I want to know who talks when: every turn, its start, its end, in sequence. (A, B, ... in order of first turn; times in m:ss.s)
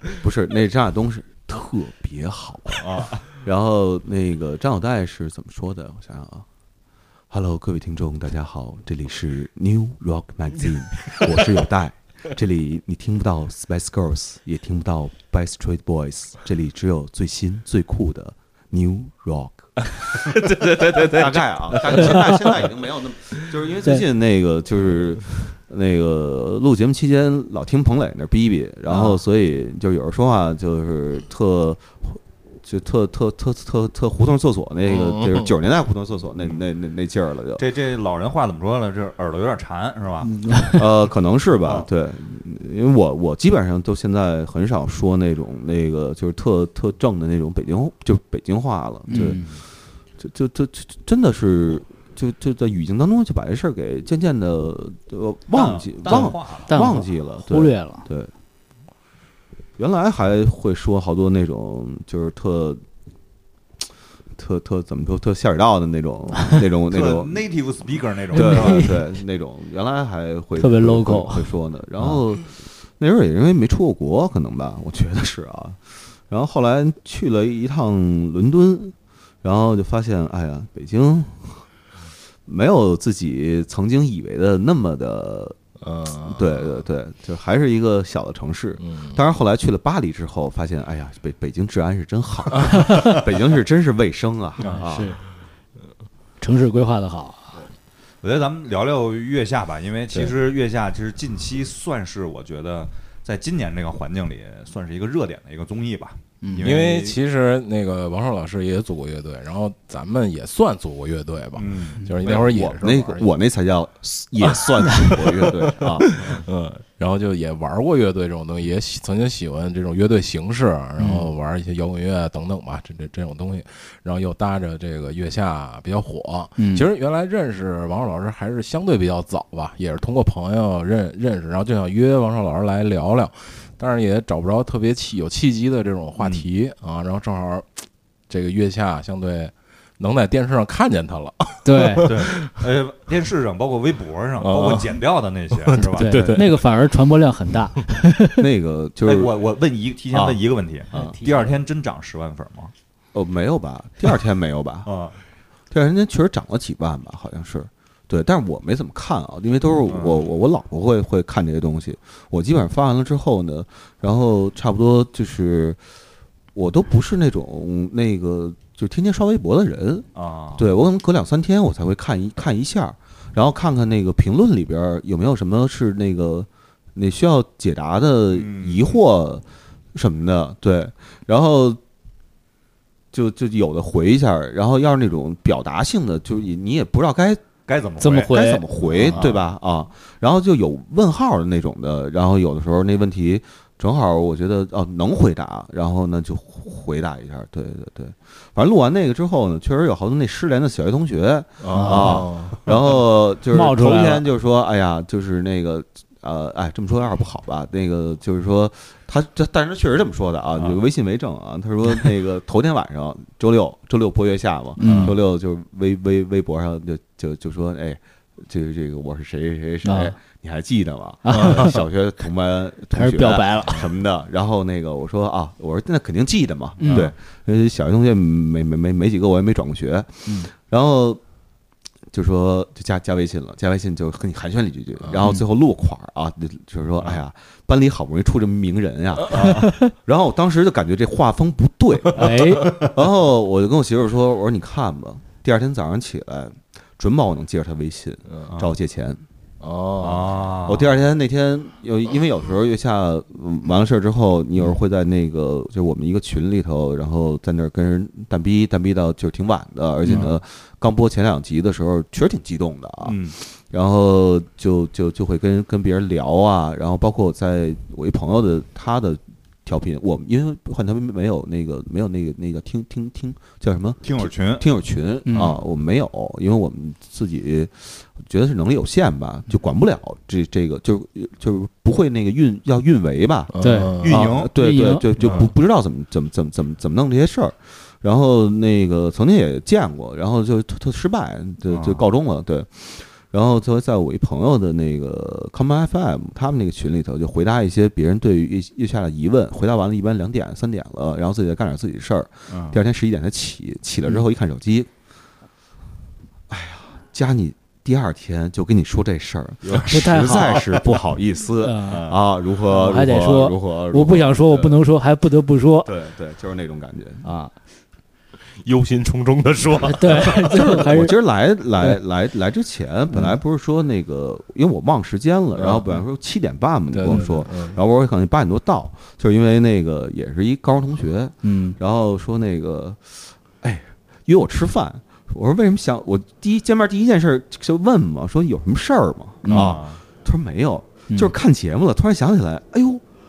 0:00.2-0:06.4 A
0:02.8-0:03.2 B
0:07.3-0:37.6 A
0:20.2-0:22.6 C
0:34.9-0:35.5 C
0:37.6-0:40.3 B
0:40.2-0:40.8 D
0:40.7-0:49.4 A
0:49.1-0:49.4 D
0:49.1-0:49.6 B
0:50.2-0:58.3 A
0:55.5-0:56.9 B
0:56.0-0:58.1 D
0:59.8-1:02.8 A
1:04.4-1:07.4 A
1:06.9-1:08.9 B
1:08.3-1:09.0 D
1:08.3-1:21.7 A
1:10.6-1:11.5 D
1:22.4-1:25.6 A
1:25.8-1:26.8 C
1:26.2-1:35.2 A
1:28.8-1:29.2 C
1:32.8-1:33.2 D
1:34.6-1:35.2 D
1:36.4-1:37.6 D
1:38.2-1:47.2 B
1:46.4-1:46.8 D
1:46.6-1:53.3 C
1:51.5-1:52.0 B
1:52.2-1:56.1 A
1:54.6-2:22.6 C
1:56.2-1:56.4 B
2:01.0-2:01.3 D
2:06.6-2:06.8 D
2:16.2-2:16.5 B
2:21.6-2:22.1 D
2:22.0-2:26.1 B
2:24.4-2:25.0 C
2:25.5-2:26.7 C
2:25.8-2:28.4 D
2:28.4-2:29.3 A
2:29.0-2:32.7 B
2:30.1-2:30.4 A
2:30.9-2:31.6 D
2:33.1-2:34.9 A
2:34.8-2:35.2 B
2:35.7-2:45.8 A
2:39.9-2:40.3 B
2:46.5-2:50.0 A
2:50.1-2:50.6 B
2:50.6-3:01.8 A
2:58.3-2:59.0 B
3:03.1-3:07.4 A
3:07.7-3:08.3 B
3:08.0-3:08.6 D
3:08.3-3:51.2 A
3:09.0-3:09.4 B
3:21.6-3:22.6 C
3:21.7-3:22.3 D
3:23.5-3:24.2 D
3:34.8-3:35.1 D
3:34.8-3:35.1 B
3:39.8-3:40.1 D
3:41.2-3:41.8 D
3:41.3-3:41.7 C
3:42.9-3:43.9 D
3:46.8-3:47.1 D
3:52.1-4:09.2 A
3:55.0-3:55.3 C
3:59.3-3:59.7 B
4:02.1-4:02.9 D
4:09.6-4:10.4 C
4:10.0-4:10.9 B
4:10.6-5:04.9 A
4:23.0-4:23.4 B
4:34.0-4:34.6 B
4:35.2-4:35.6 D
4:43.5-4:44.3 C
4:43.6-4:45.1 D
4:44.0-4:44.5 B
4:45.2-4:45.5 B
4:51.7-4:52.0 B
5:02.5-5:02.8 B
5:06.5-5:14.8 A
5:09.7-5:10.6 B
5:09.8-5:11.0 D
5:11.6-5:12.1 D
5:11.9-5:12.2 B
5:12.7-5:15.9 D
5:15.8-5:17.3 A
5:17.2-5:17.5 D
5:18.5-5:20.8 C
5:19.8-5:21.2 D
5:20.4-5:43.0 A
5:25.5-5:26.0 C
5:26.9-5:27.8 C
5:31.4-5:31.8 D
5:39.4-5:39.7 D
5:39.5-5:40.0 B